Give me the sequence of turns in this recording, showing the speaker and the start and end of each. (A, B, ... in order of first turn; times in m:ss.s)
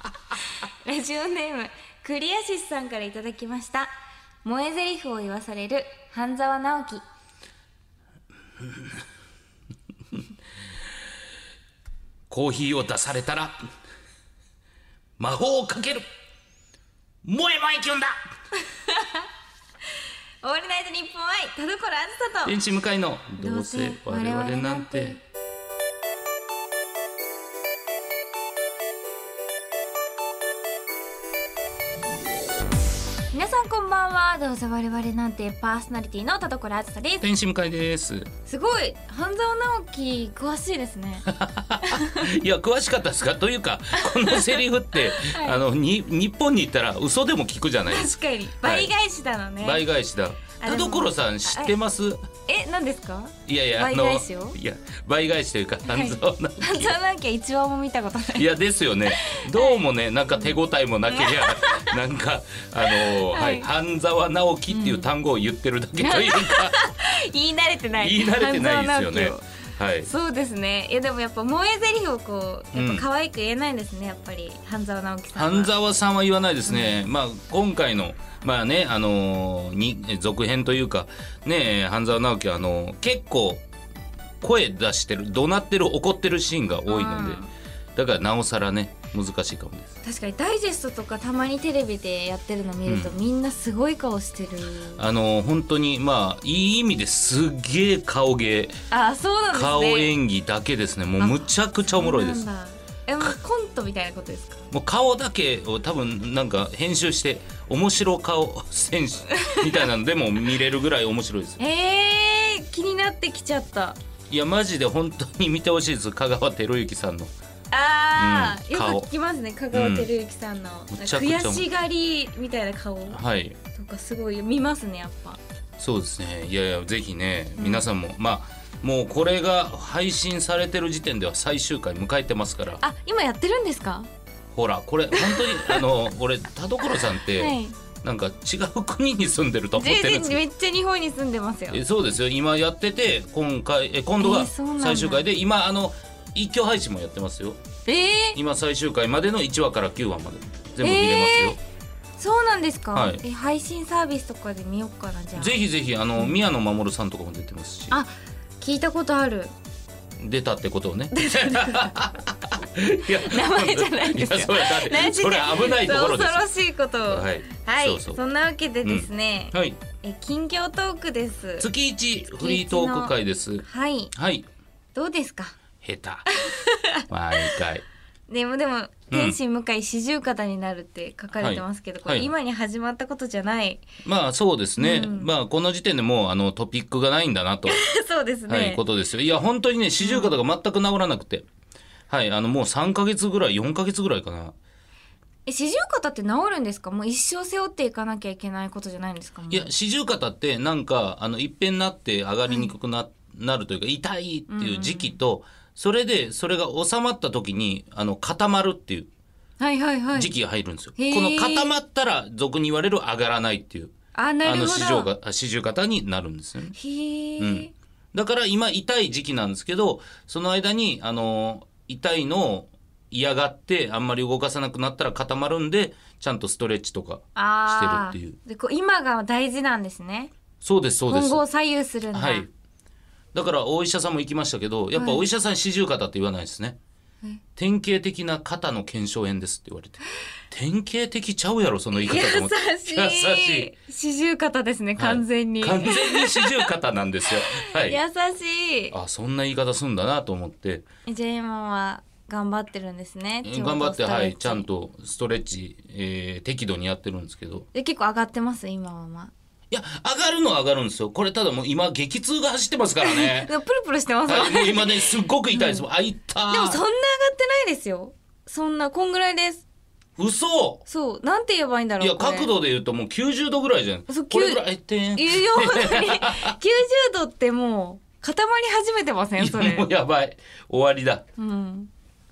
0:00.8-0:03.9 A
0:04.4-0:07.0 A
0:08.6-0:08.9 B
0:12.3-0:13.6 B
0:15.2-0:16.0 B
0:17.2-0:18.2 B
0:18.7-0:19.3 A
0:20.4-0:22.6 A
0:22.4-0:25.2 B
0:23.4-0:25.2 A
0:33.3-0:37.2 A
0:37.2-0:38.3 B
0:38.5-0:41.3 A
0:41.3-0:48.9 B
0:41.8-0:42.2 A
0:44.0-0:45.6 A
0:47.9-0:49.8 A
0:49.6-0:52.2 B
0:50.6-0:51.7 A
0:52.5-0:54.6 A
0:53.5-0:57.0 B
0:55.9-0:58.5 A
0:58.3-1:06.8 B
0:59.1-0:59.8 A
1:01.1-1:02.0 A
1:02.8-1:03.7 A
1:04.7-1:05.1 A
1:06.0-1:15.7 A
1:08.0-1:10.1 B
1:12.7-1:13.1 B
1:15.4-1:23.6 B
1:16.7-1:17.0 A
1:24.4-1:27.4 B
1:26.9-1:27.5 A
1:28.0-1:29.9 B
1:30.0-1:35.0 A
1:32.9-1:33.2 B
1:35.0-1:38.7 B
1:38.9-1:40.1 A
1:39.5-1:42.4 B
1:41.2-1:44.6 A
1:44.7-1:51.6 B
1:49.4-1:49.6 A
1:51.6-1:54.0 A
1:54.3-1:57.3 B
1:57.7-2:03.2 A
1:58.2-1:59.1 B
1:59.7-2:00.1 B
2:00.9-2:01.6 B
2:03.1-2:03.6 B
2:03.7-2:05.4 A
2:05.8-2:12.8 B
2:07.6-2:07.9 A
2:12.8-2:14.1 A
2:14.5-2:20.4 B
2:15.1-2:15.8 A
2:17.3-2:17.8 A
2:19.8-2:21.8 A
2:21.7-2:27.6 B
2:24.2-2:25.2 A
2:27.9-2:28.4 A
2:28.4-2:31.6 B
2:30.8-2:31.6 A
2:32.2-2:35.6 A
2:32.9-2:33.2 B
2:35.4-2:38.0 B
2:37.9-2:39.5 A
2:40.2-2:46.5 B
2:41.1-2:42.0 A
2:43.2-2:51.7 A
2:47.1-2:48.2 B
2:48.8-2:49.8 B
2:51.6-2:54.5 B
2:52.4-2:54.1 A
2:55.0-2:55.6 A
2:55.8-2:56.3 B
2:56.4-2:57.6 A
2:57.1-2:57.8 B
2:58.3-3:03.8 A
2:59.1-2:59.4 B
3:01.4-3:02.3 B
3:04.0-3:07.8 B
3:04.8-3:05.3 A
3:07.7-3:08.8 A
3:08.5-3:11.4 B
3:10.0-3:10.4 A
3:12.1-3:14.6 B
3:15.5-3:19.7 A
3:19.5-3:29.1 B
3:24.5-3:25.2 A
3:29.6-3:30.3 A
3:30.1-3:33.9 B
3:31.0-3:31.7 A
3:34.2-3:35.1 A
3:34.4-3:36.8 B
3:36.8-3:37.7 A
3:37.4-3:48.4 B
3:47.4-3:50.3 A
3:50.6-3:51.4 B
3:51.1-3:52.5 A
3:52.1-3:52.5 B
3:53.3-3:56.8 B
3:55.0-3:55.2 A
3:57.6-4:03.7 B
4:01.9-4:06.7 A
4:05.0-4:08.0 B
4:07.3-4:08.9 A
4:08.9-4:10.8 B
4:11.1-4:14.7 A
4:13.4-4:17.7 B
4:17.7-4:19.3 A
4:19.7-4:23.5 B
4:23.0-4:25.9 A
4:24.3-4:26.8 B
4:26.5-4:29.6 A
4:30.2-4:30.8 B
4:30.9-4:32.5 A
4:32.0-4:36.6 B
4:34.1-4:34.6 A
4:35.2-4:39.9 A
4:39.4-4:41.2 B
4:41.4-4:41.9 A